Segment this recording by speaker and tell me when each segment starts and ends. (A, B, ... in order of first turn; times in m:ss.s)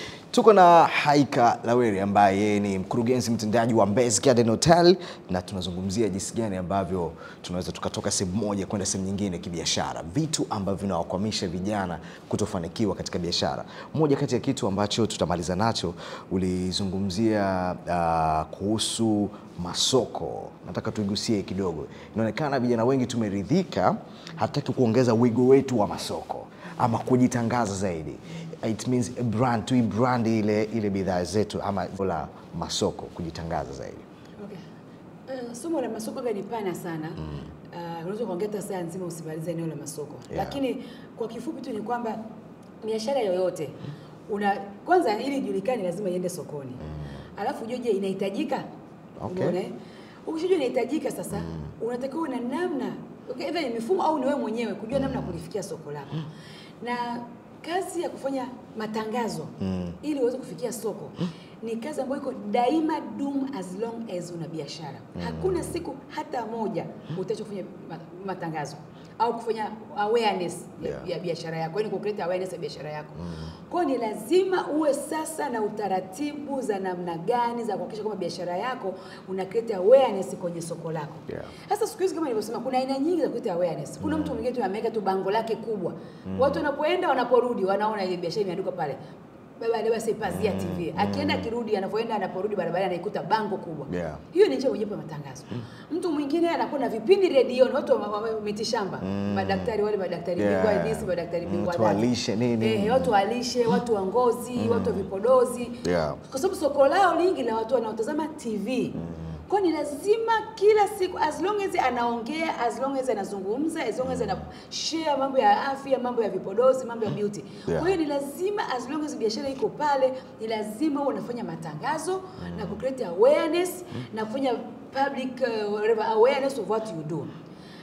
0:00.3-0:34.0 A
0:35.3-0:42.2 B
0:37.2-0:37.5 A
0:40.3-0:40.6 A
0:42.8-0:43.8 B
0:44.3-0:46.8 B
0:46.8-0:47.1 A
0:47.4-0:48.6 B
0:49.2-0:49.6 A
0:49.3-0:49.7 B
0:50.2-0:56.2 B
0:51.4-0:51.7 A
0:54.9-0:55.3 A
0:56.8-1:29.0 B
0:59.6-1:00.0 A
1:05.2-1:05.7 A
1:13.2-1:13.5 A
1:24.0-1:24.4 A
1:26.3-1:26.6 A
1:29.6-1:42.0 B
1:30.2-1:31.4 A
1:33.9-1:34.2 A
1:39.0-1:39.7 A
1:40.4-1:43.1 A
1:42.6-2:07.3 B
1:44.6-1:45.1 A
1:45.8-1:46.2 A
1:49.0-1:49.4 A
1:54.1-1:54.3 A
1:57.7-1:57.9 A
2:02.4-2:02.8 A